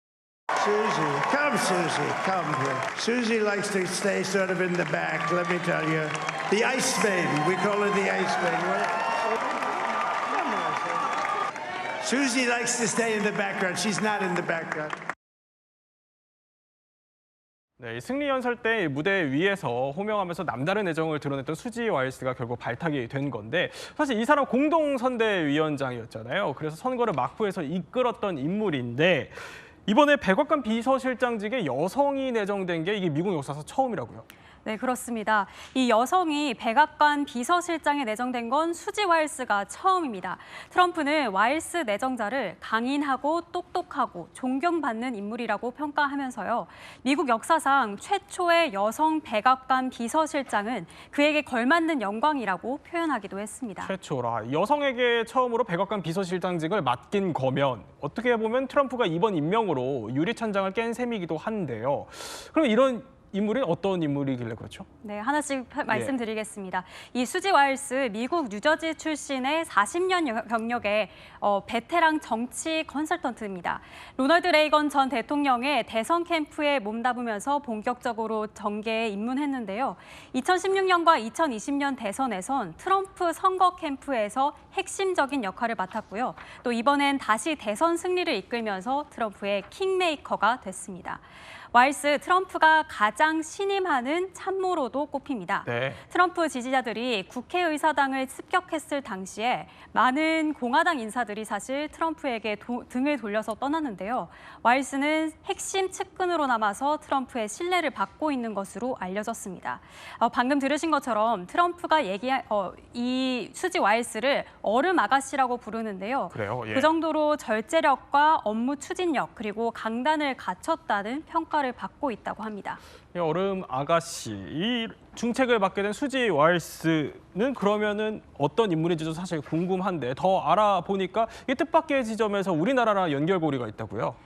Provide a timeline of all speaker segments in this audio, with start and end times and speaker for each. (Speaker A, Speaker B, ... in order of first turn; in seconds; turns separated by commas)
Speaker A: 0.6-9.0, Speaker A: 10.3-10.9, Speaker A: 12.0-15.0, Speaker B: 17.8-34.3, Speaker C: 34.6-53.9, Speaker B: 53.8-64.9, Speaker C: 65.0-122.8, Speaker B: 95.7-96.0, Speaker B: 116.3-116.9, Speaker B: 123.1-134.2